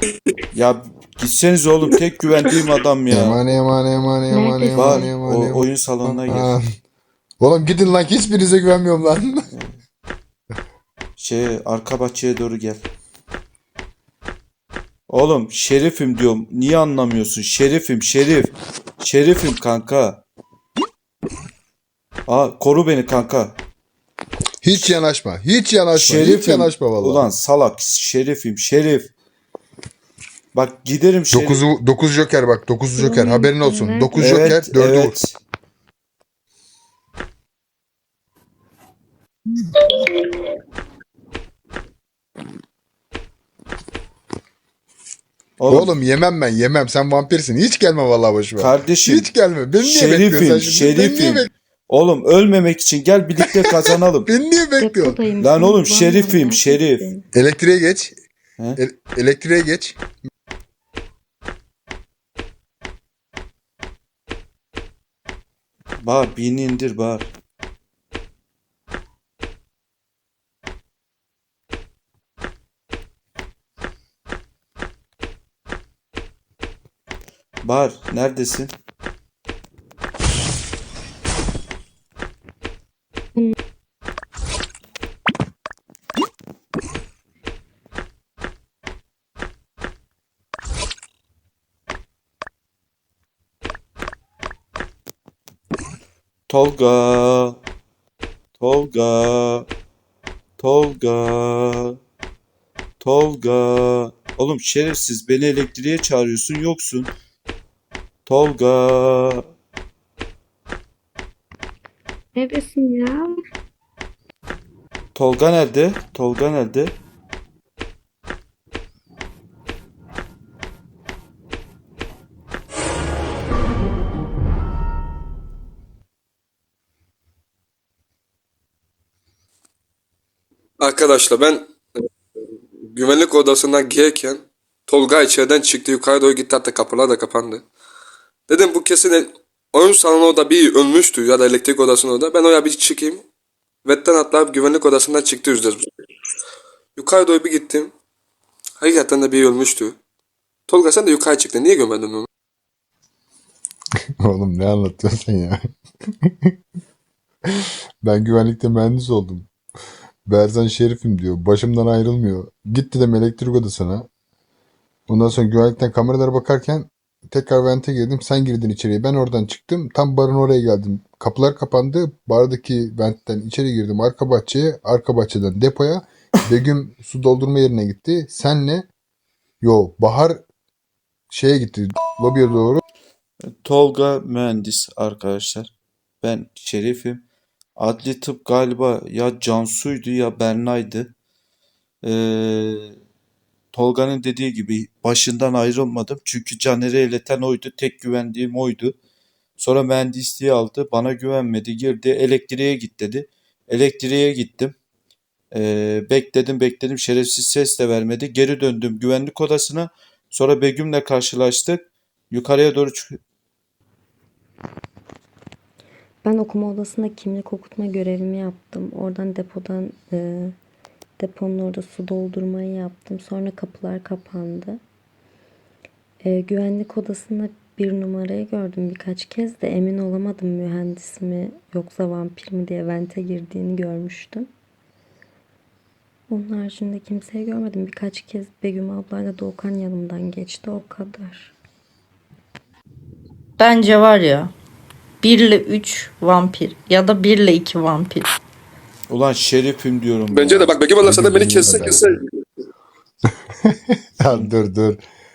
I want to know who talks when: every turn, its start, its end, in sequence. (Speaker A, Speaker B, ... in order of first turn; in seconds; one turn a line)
Speaker A: 0.5-3.4
Speaker B: 3.1-6.7
Speaker C: 4.3-5.1
Speaker A: 4.7-6.5
Speaker B: 7.4-9.5
Speaker A: 9.5-9.8
Speaker A: 11.2-12.8
Speaker A: 15.1-20.2
Speaker A: 22.3-23.6
Speaker B: 24.6-27.3
Speaker A: 25.9-29.1
Speaker A: 30.5-31.6
Speaker B: 31.3-35.2
Speaker C: 33.0-34.4
Speaker A: 34.1-35.4
Speaker A: 45.6-45.9
Speaker B: 45.7-51.5
Speaker A: 48.6-54.3
Speaker B: 54.3-55.2
Speaker C: 54.8-57.2
Speaker A: 55.4-57.1
Speaker B: 57.3-58.1
Speaker B: 58.8-60.0
Speaker A: 66.0-67.3
Speaker A: 77.6-78.7
Speaker A: 96.5-97.6
Speaker A: 98.6-99.7
Speaker A: 100.6-102.0
Speaker A: 103.0-107.1
Speaker A: 108.3-109.5
Speaker A: 115.2-117.0
Speaker D: 130.8-131.7
Speaker D: 132.9-137.6
Speaker D: 138.5-143.2
Speaker D: 143.8-145.9
Speaker D: 147.0-147.9
Speaker D: 148.8-150.0
Speaker D: 150.7-152.3
Speaker B: 154.2-156.5
Speaker B: 157.5-159.5
Speaker B: 160.3-164.1
Speaker B: 165.1-178.9
Speaker B: 179.6-180.4
Speaker B: 181.3-182.8
Speaker A: 183.4-185.7
Speaker A: 186.2-187.2
Speaker A: 187.8-191.1
Speaker A: 192.0-193.0
Speaker A: 193.7-198.9
Speaker A: 199.6-204.8
Speaker A: 205.5-213.2
Speaker C: 216.2-220.5
Speaker C: 221.2-224.8
Speaker C: 226.2-234.5
Speaker C: 236.3-241.5
Speaker E: 243.6-244.5
Speaker E: 245.2-248.3
Speaker A: 249.1-250.8
Speaker D: 250.3-252.2
Speaker B: 251.0-252.0
Speaker B: 253.6-255.0